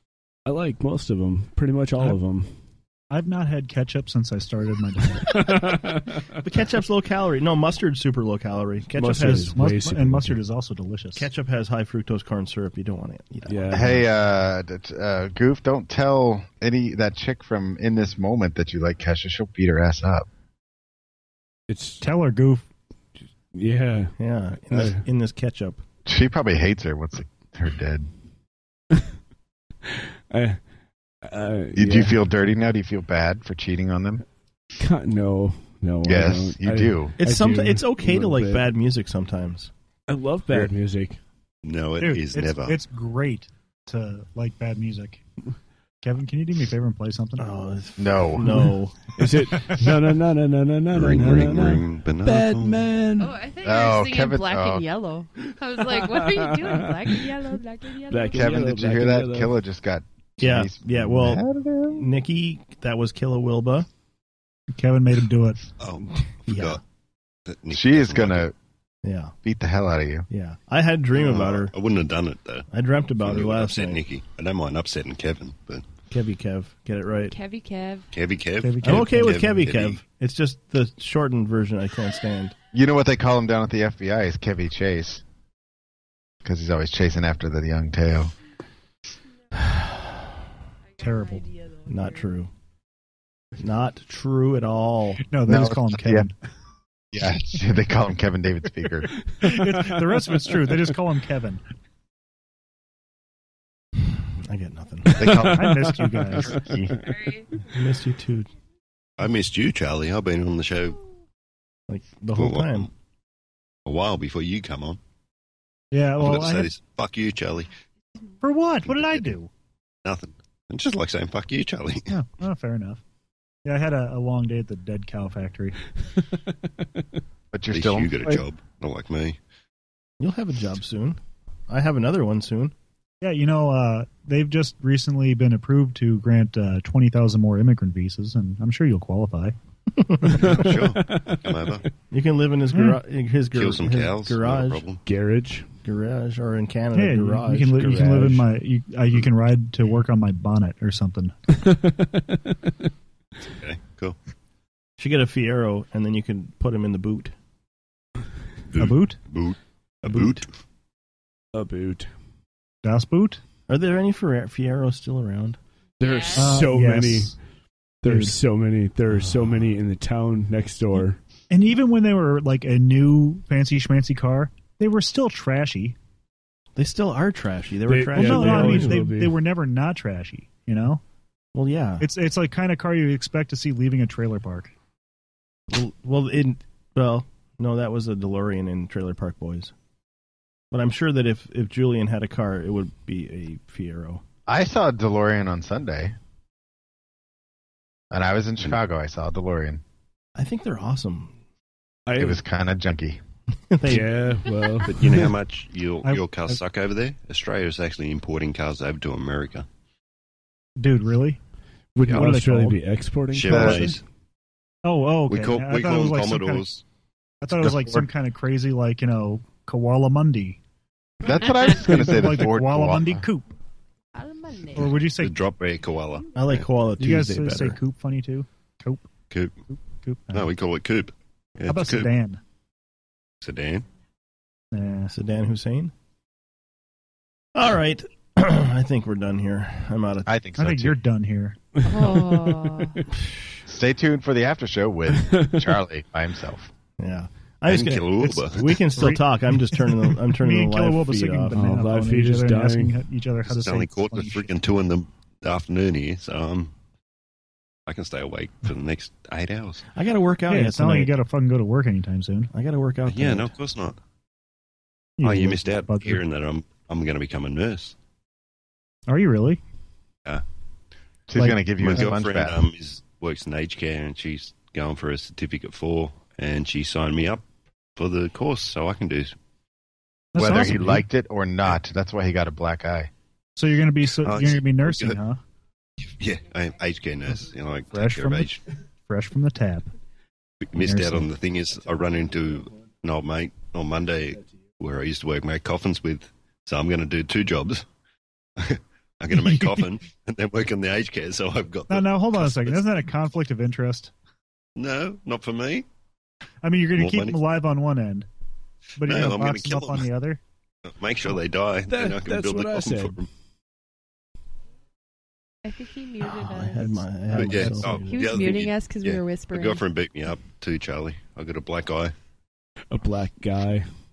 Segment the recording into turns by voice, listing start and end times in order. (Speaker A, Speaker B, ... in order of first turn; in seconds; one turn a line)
Speaker A: 0.5-2.5
Speaker B: 3.1-5.3
Speaker A: 5.2-6.1
Speaker C: 6.4-9.6
Speaker A: 9.0-10.4
Speaker B: 9.3-11.3
Speaker C: 11.2-14.0
Speaker A: 13.5-14.0
Speaker D: 13.7-20.3
Speaker A: 21.7-22.0
Speaker B: 22.0-22.7
Speaker A: 23.5-24.1
Speaker C: 24.2-25.8
Speaker A: 24.7-25.0
Speaker D: 26.1-28.1
Speaker A: 29.9-30.6
Speaker A: 31.2-32.2
Speaker D: 31.8-34.2
Speaker A: 34.8-38.7
Speaker D: 36.0-37.1
Speaker C: 37.2-39.7
Speaker A: 40.1-41.2
Speaker E: 41.6-42.8
Speaker B: 42.0-45.2
Speaker B: 46.0-47.5
Speaker C: 47.4-49.2
Speaker D: 48.0-48.5
Speaker A: 49.2-53.4
Speaker E: 50.9-52.8
Speaker F: 53.2-58.5
Speaker D: 53.6-54.9
Speaker A: 56.0-56.9
Speaker A: 58.1-59.5
Speaker D: 58.3-62.1
Speaker C: 60.4-63.9
Speaker B: 64.8-65.6
Speaker E: 65.8-66.8
Speaker C: 66.5-66.8
Speaker E: 67.5-68.5
Speaker D: 67.7-68.5
Speaker C: 69.0-69.3
Speaker D: 69.4-70.3
Speaker C: 70.3-71.7
Speaker E: 71.1-72.7
Speaker C: 72.7-74.0
Speaker E: 73.2-75.8
Speaker C: 76.1-77.3
Speaker F: 77.3-78.1
Speaker E: 78.1-80.0
Speaker B: 78.6-79.2
Speaker C: 78.8-82.5
Speaker D: 82.7-85.2
Speaker D: 86.4-88.3
Speaker C: 89.6-90.3
Speaker B: 91.0-91.4
Speaker F: 91.1-91.4
Speaker C: 91.9-92.5
Speaker C: 93.6-95.3
Speaker B: 95.2-96.3
Speaker D: 95.5-96.3
Speaker D: 97.1-99.1
Speaker B: 99.4-101.6
Speaker C: 104.4-105.3
Speaker D: 105.2-105.8
Speaker B: 105.5-106.6
Speaker A: 105.6-106.0
Speaker D: 106.4-107.0
Speaker C: 107.7-108.5
Speaker E: 109.2-111.0
Speaker C: 111.9-112.9
Speaker E: 112.3-112.9
Speaker E: 113.9-115.0
Speaker B: 115.9-116.8
Speaker E: 116.2-117.7
Speaker B: 118.4-119.5
Speaker E: 118.9-119.3
Speaker E: 120.0-122.1
Speaker B: 122.1-123.0
Speaker B: 123.7-125.8
Speaker D: 127.5-128.4
Speaker E: 127.7-129.4
Speaker C: 130.2-132.7
Speaker B: 133.2-139.6
Speaker E: 140.4-141.8
Speaker C: 142.1-144.9
Speaker B: 142.7-143.0
Speaker E: 143.5-145.0
Speaker A: 145.1-145.7
Speaker C: 145.8-148.4
Speaker B: 146.9-151.3
Speaker A: 151.6-152.5
Speaker E: 153.4-154.2
Speaker C: 155.0-157.3
Speaker B: 158.7-159.2
Speaker E: 158.7-160.5
Speaker B: 160.1-160.4
Speaker A: 161.5-162.1
Speaker B: 162.8-163.4
Speaker C: 163.7-165.6
Speaker A: 166.0-167.4
Speaker F: 166.0-166.5
Speaker B: 166.3-167.3
Speaker A: 168.0-171.2
Speaker B: 168.1-168.3
Speaker B: 171.5-176.0
Speaker C: 176.8-179.0
Speaker A: 177.9-179.4
Speaker B: 178.1-181.0
Speaker C: 181.5-182.1
Speaker B: 182.0-184.7
Speaker C: 185.7-189.7
Speaker C: 190.7-194.2
Speaker D: 194.5-196.2
Speaker D: 198.1-199.8
Speaker C: 200.4-201.3
Speaker A: 202.1-202.4
Speaker D: 202.2-203.2
Speaker C: 203.7-204.1
Speaker A: 203.9-205.2
Speaker E: 204.9-209.7
Speaker B: 206.0-206.6
Speaker B: 210.8-211.4
Speaker A: 211.9-213.9
Speaker B: 212.1-212.8
Speaker E: 213.3-214.0
Speaker B: 213.5-214.0
Speaker D: 213.5-213.8
Speaker B: 214.8-216.8
Speaker E: 215.3-216.8
Speaker B: 217.4-220.6
Speaker D: 217.5-218.1
Speaker D: 221.2-223.3
Speaker B: 221.7-223.4
Speaker F: 224.2-225.1
Speaker B: 224.8-225.4
Speaker E: 225.1-226.7
Speaker C: 226.3-227.8
Speaker B: 227.0-229.1
Speaker E: 229.3-229.6
Speaker B: 229.7-230.5
Speaker E: 230.3-232.1
Speaker B: 231.6-232.4
Speaker E: 233.4-233.8
Speaker B: 234.7-235.1
Speaker C: 235.1-235.9
Speaker C: 237.6-240.3
Speaker D: 240.3-241.0
Speaker B: 240.6-241.6
Speaker F: 241.8-243.0
Speaker A: 241.8-242.6
Speaker D: 243.7-246.7
Speaker C: 247.0-251.6
Speaker E: 247.7-248.8
Speaker B: 249.0-249.4
Speaker B: 250.3-254.5
Speaker A: 251.6-253.0
Speaker E: 253.5-256.7
Speaker E: 257.9-259.9
Speaker C: 259.9-261.1
Speaker B: 260.5-262.5
Speaker C: 262.5-263.5
Speaker E: 263.1-264.0
Speaker B: 265.2-266.2
Speaker E: 265.2-267.9
Speaker B: 269.1-269.6
Speaker D: 271.3-272.6
Speaker B: 271.4-272.1
Speaker E: 271.8-277.4
Speaker E: 278.0-279.3
Speaker B: 280.3-281.0
Speaker D: 280.4-283.1
Speaker B: 283.6-285.4
Speaker E: 284.2-285.2
Speaker E: 286.2-288.6
Speaker B: 287.9-289.9
Speaker E: 290.6-297.8
Speaker B: 290.7-291.3
Speaker E: 298.6-302.9
Speaker B: 299.4-299.9
Speaker B: 301.9-304.1
Speaker E: 304.8-305.9
Speaker B: 306.6-308.3
Speaker E: 307.0-307.4
Speaker B: 309.0-310.4
Speaker E: 309.0-310.1
Speaker E: 310.9-313.3
Speaker A: 311.9-313.2
Speaker F: 315.6-317.2
Speaker C: 316.3-318.4
Speaker E: 317.3-322.1
Speaker B: 317.6-317.9
Speaker F: 317.9-319.9
Speaker A: 322.9-323.9